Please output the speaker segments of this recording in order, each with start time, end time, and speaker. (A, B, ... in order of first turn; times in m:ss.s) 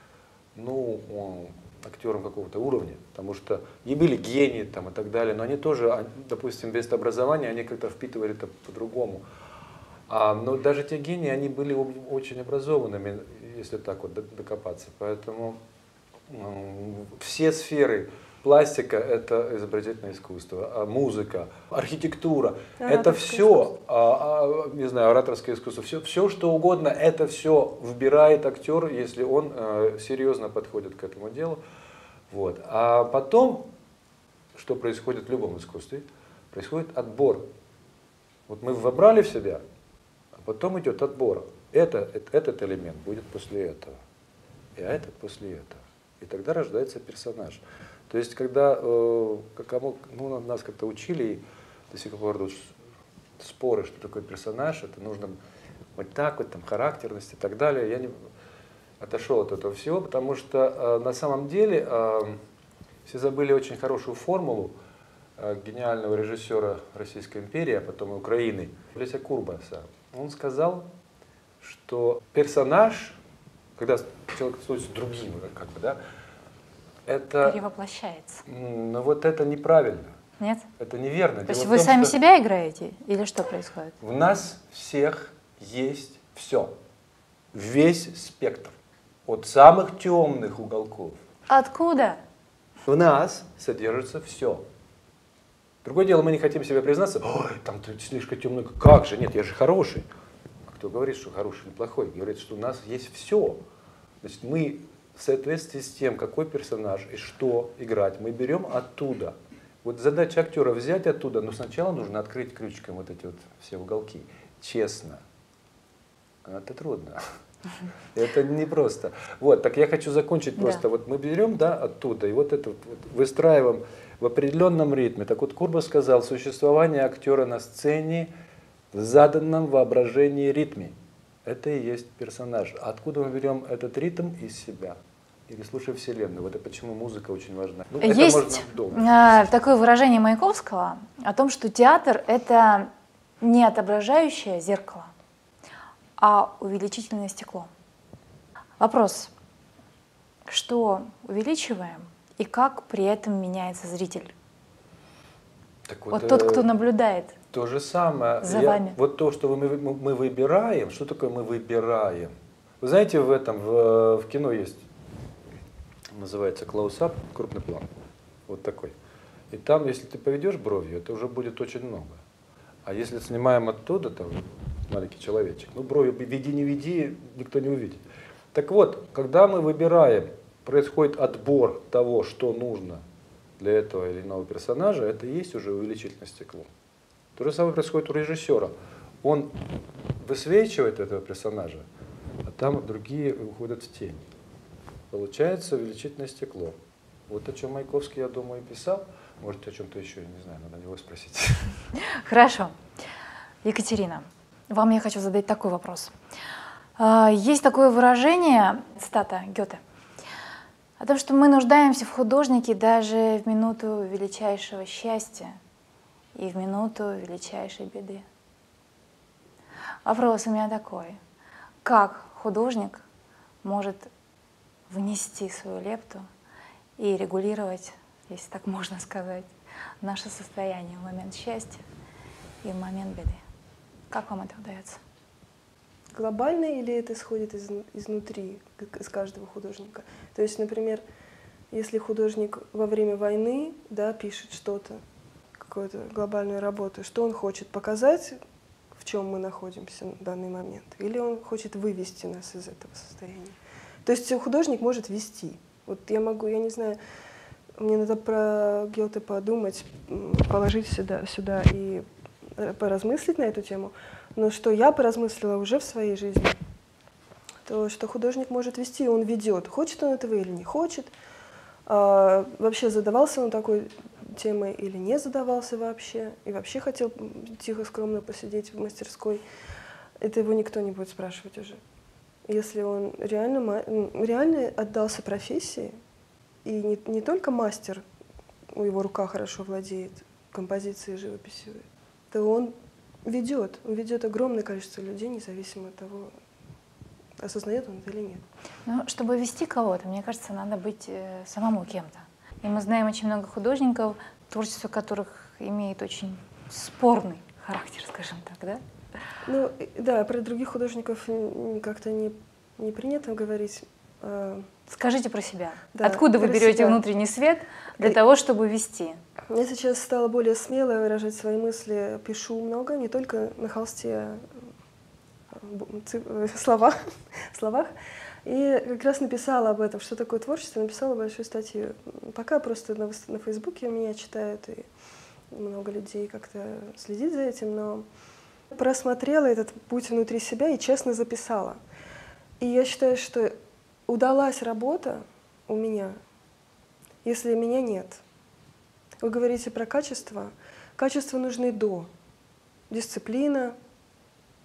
0:00.6-0:09.2 A
0:10.1-0:15.6 A
0:16.3-0:31.6 A
0:22.8-0:23.6 B
0:32.3-0:33.7 A
0:34.6-0:37.5 A
0:38.5-0:39.6 A
0:40.3-0:44.0 A
0:44.8-0:52.8 A
0:53.4-0:55.4 A
0:56.0-0:58.1 A
0:59.0-1:02.4 A
1:03.0-1:04.7 A
1:05.4-1:10.9 A
1:11.6-1:13.2 A
1:13.8-1:16.0 A
1:17.1-1:17.6 A
1:17.4-1:18.4 C
1:18.5-1:20.2 A
1:20.4-1:20.7 C
1:20.8-1:22.2 A
1:21.5-1:24.0 C
1:24.0-1:26.7 A
1:27.5-1:28.7 A
1:29.3-1:31.2 A
1:31.5-1:32.2 C
1:32.9-1:34.6 A
1:35.8-1:40.0 A
1:40.7-1:43.6 A
1:44.2-1:55.2 A
1:56.4-1:57.2 A
1:58.1-2:08.3 A
2:08.9-2:19.2 A
2:18.0-2:25.1 C
2:26.2-2:27.7 C
2:28.8-2:29.3 C
2:30.5-2:34.3 C
2:35.9-2:36.7 A
2:36.1-2:37.4 C
2:37.5-2:44.9 A
2:38.4-2:39.0 C
2:46.1-2:47.9 A
2:48.5-2:49.0 A
2:49.5-2:52.2 A
2:52.8-2:58.0 A
2:58.5-3:03.0 A
3:03.6-3:06.7 A
3:07.4-3:09.6 A
3:10.1-3:11.9 A
3:12.4-3:14.2 A
3:15.1-3:21.7 A
3:22.0-3:22.8 C
3:23.6-3:26.1 C
3:27.0-3:29.8 C
3:31.0-3:35.6 C
3:36.4-3:38.2 C
3:40.0-3:41.2 C
3:41.8-3:43.0 C
3:43.6-3:44.1 C
3:44.9-3:46.2 C
3:47.0-3:49.5 C
3:50.0-3:51.8 C
3:52.6-3:53.4 C
3:54.1-3:55.0 C
3:56.1-4:01.0 B
4:01.7-4:05.0 B
4:05.6-4:08.4 B
4:09.0-4:17.0 B
4:17.8-4:22.1 B
4:22.6-4:26.6 B
4:27.7-4:31.1 B
4:31.9-4:39.4 B
4:40.2-4:41.8 B
4:42.5-4:46.0 B
4:46.6-4:48.0 B
4:48.7-4:56.3 B
4:57.4-4:58.4 B
4:58.9-5:08.8 C
5:09.5-5:14.7 B
5:14.9-5:19.2 C
5:16.0-5:17.0 B
5:19.5-5:24.5 B
5:25.5-5:27.9 B
5:28.4-5:34.9 B
5:35.5-5:38.1 B
5:38.7-5:41.8 B
5:42.6-5:43.5 B
5:44.1-5:46.2 B
5:47.2-5:48.2 B
5:49.2-5:52.1 B
5:52.9-5:53.8 B